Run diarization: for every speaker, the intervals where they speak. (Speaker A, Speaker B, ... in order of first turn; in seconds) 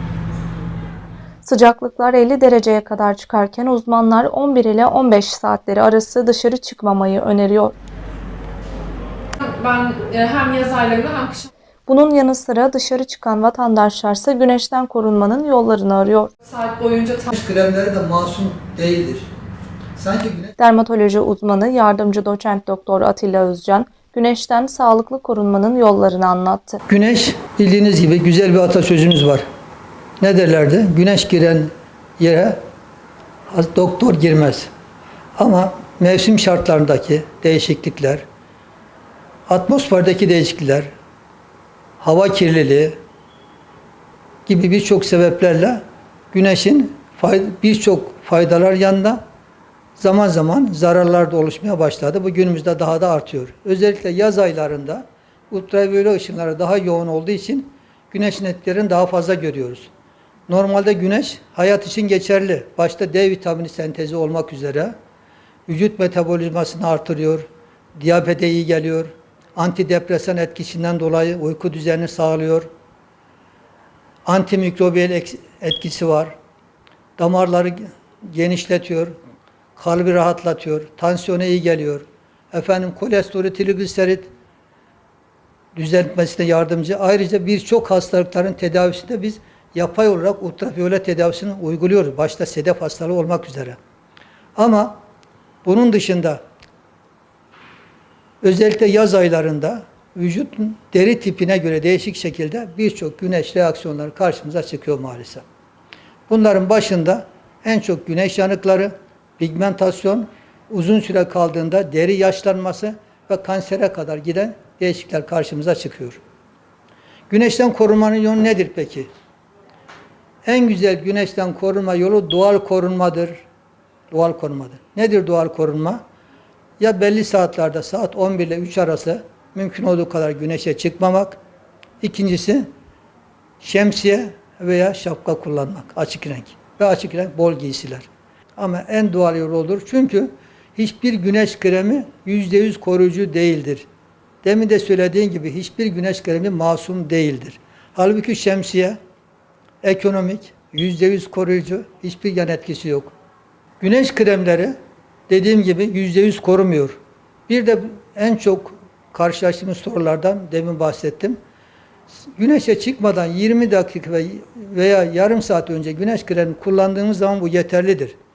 Speaker A: 1.4-7.8, 11.9-16.3, 20.6-26.8
Speaker B: 9.4-11.5, 16.4-17.3
Speaker C: 17.3-19.3, 19.9-20.5, 26.9-29.4, 30.2-32.6, 33.5-34.7, 35.4-38.2, 39.5-40.9, 42.0-43.0, 44.5-49.2, 50.0-59.9, 60.5-64.9, 65.7-67.5, 68.0-72.7, 74.2-76.3, 77.2-79.2, 79.8-84.3, 85.7-93.8, 94.5-95.0, 95.6-96.4, 98.4-105.4, 106.3-116.2, 117.3-119.1, 120.4-123.4, 124.1-126.0, 126.8-131.4, 132.0-132.7, 133.6-143.9, 144.4-149.0, 149.8-153.1, 153.8-154.8, 155.3-161.4, 162.3-168.2